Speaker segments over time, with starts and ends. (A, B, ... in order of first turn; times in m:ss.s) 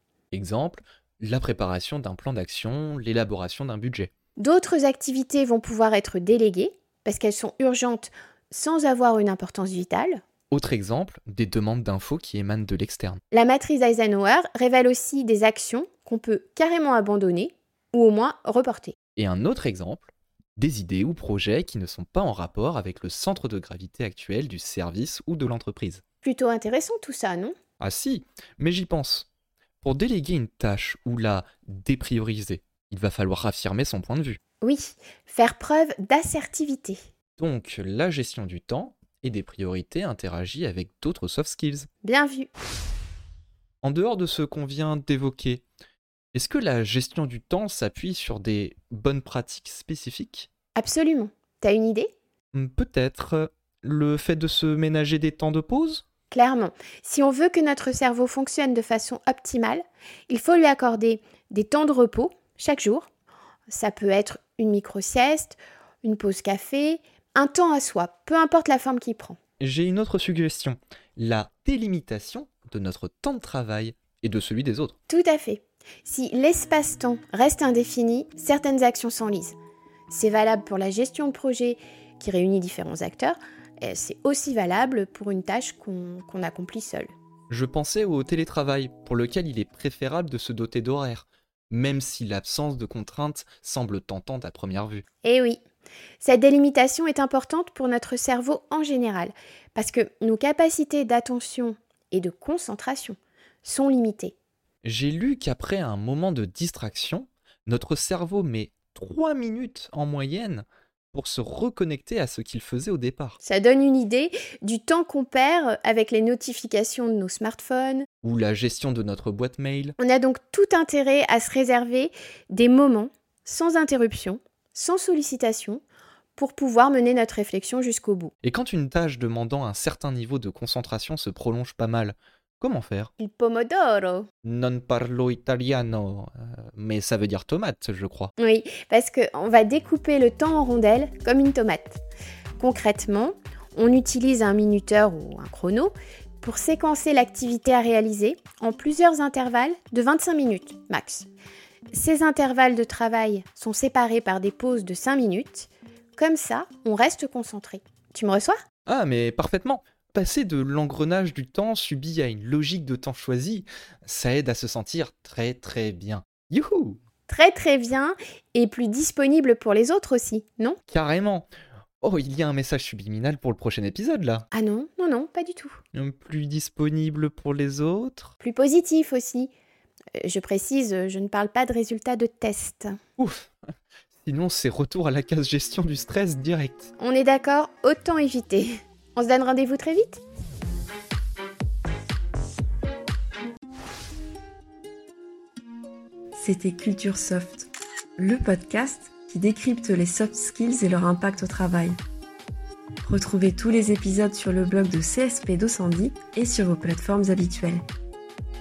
0:00.3-0:04.1 A
0:04.4-0:10.2 B
0:10.5-0:13.2 A
0:13.3-0:19.0 B
0:19.2-0:26.0 A
0:26.2-0:27.5 B
0:27.8-0:29.3 A
0:29.8-0:34.4 A
0:34.6-0:37.0 B
0:37.4-0:41.9 A
0:42.0-0:42.5 B
0:43.8-0:45.6 A
0:46.3-0:50.5 A
0:50.8-0:52.1 B
0:52.5-0:56.0 A
0:56.3-1:03.1 B
1:03.7-1:09.4 B
1:09.6-1:14.9 A
1:15.1-1:19.6 B
1:20.1-1:27.1 B
1:27.5-1:35.0 A
1:35.2-1:35.6 B
1:36.2-1:44.4 B
1:44.8-1:53.4 A
1:53.4-1:58.1 B
1:58.2-2:00.0 A
2:00.0-2:05.8 B
2:06.4-2:08.3 B
2:08.4-2:13.1 A
2:13.2-2:14.3 B
2:14.4-2:18.3 A
2:18.4-2:22.0 B
2:22.6-2:31.3 B
2:31.9-2:38.6 B
2:38.9-2:47.0 A
2:47.3-2:50.8 B
2:50.9-2:51.5 A
2:52.0-2:54.5 A
2:54.5-2:55.8 B
2:55.9-2:58.3 A
2:58.4-2:59.5 B
3:00.2-3:03.0 B
3:03.2-3:03.5 A
3:04.2-3:06.9 A
3:07.0-3:10.2 B
3:16.4-3:22.0 C
3:23.0-3:27.8 C